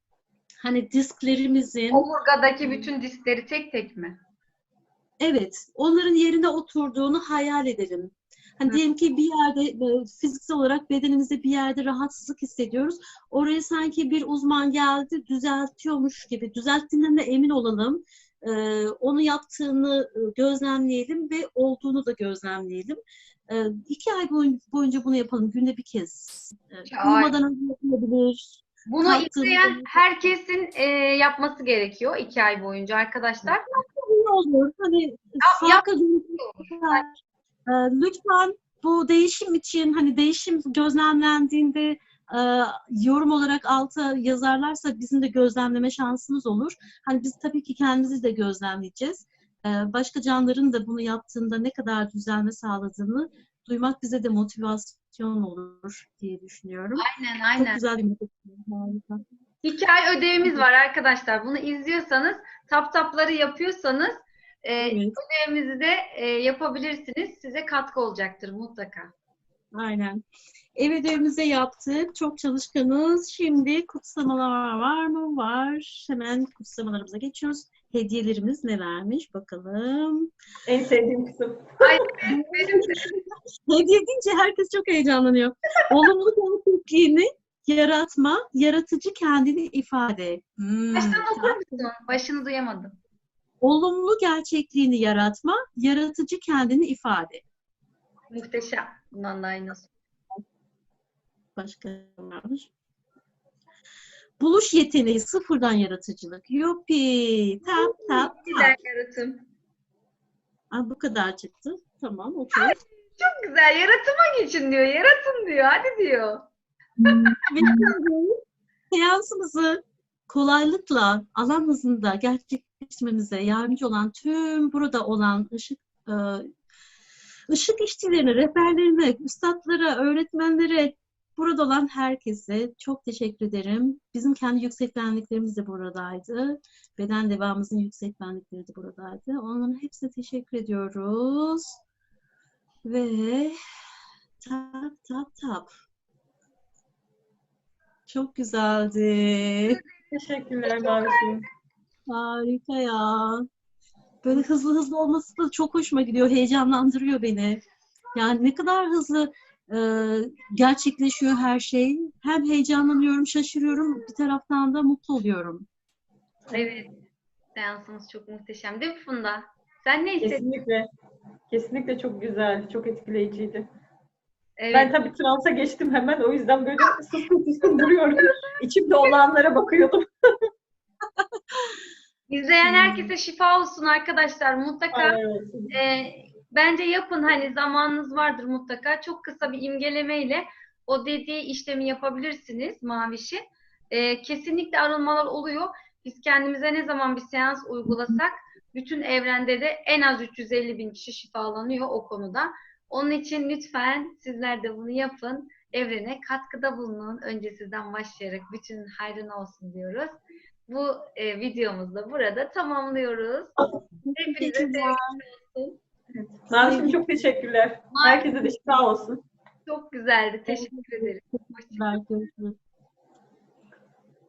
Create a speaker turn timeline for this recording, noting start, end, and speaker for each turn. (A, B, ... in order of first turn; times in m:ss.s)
0:00.6-0:02.1 A
0:01.9-0:04.2 B
0:05.2-0:30.1 A
0:26.9-0:27.4 B
0:28.9-0:33.8 B
0:33.4-0:37.2 A
0:35.4-0:37.1 B
0:37.7-0:57.1 A
0:57.0-0:57.8 B
0:57.6-0:59.2 A
0:59.6-1:09.1 B
1:04.8-1:05.2 A
1:09.7-1:10.2 A
1:10.8-1:20.3 A
1:20.7-1:22.1 C
1:21.8-1:23.1 B
1:22.3-1:31.9 A
1:30.9-1:33.0 B
1:33.6-1:37.4 A
1:38.3-1:39.9 B
1:41.6-1:42.7 A
1:44.4-1:48.8 A
1:47.7-1:49.4 B
1:50.7-1:52.8 A
1:52.5-1:56.4 B
1:57.0-1:57.9 B
1:57.5-1:58.4 A
1:58.9-2:06.5 A
2:07.5-2:21.8 A
2:22.8-2:23.6 A
2:24.4-2:25.7 A
2:28.1-2:29.8 A
2:30.1-2:31.4 C
2:30.6-2:31.4 B
2:32.1-2:33.4 A
2:34.2-2:37.6 A
2:38.2-2:45.7 A
2:46.5-2:46.9 B
2:47.6-2:50.4 B
2:50.2-2:50.9 C
2:51.5-2:53.7 C
2:54.6-2:54.9 B
2:54.7-3:00.1 C
2:57.7-2:58.5 B
3:02.3-3:05.2 B
3:02.6-3:03.1 A
3:04.9-3:05.8 C
3:05.7-3:33.5 B
3:34.0-3:35.2 A
3:34.2-3:35.8 B
3:36.5-3:39.2 C
3:36.5-3:37.0 A
3:37.9-3:38.4 B
3:39.7-3:42.0 B
3:40.5-3:42.6 A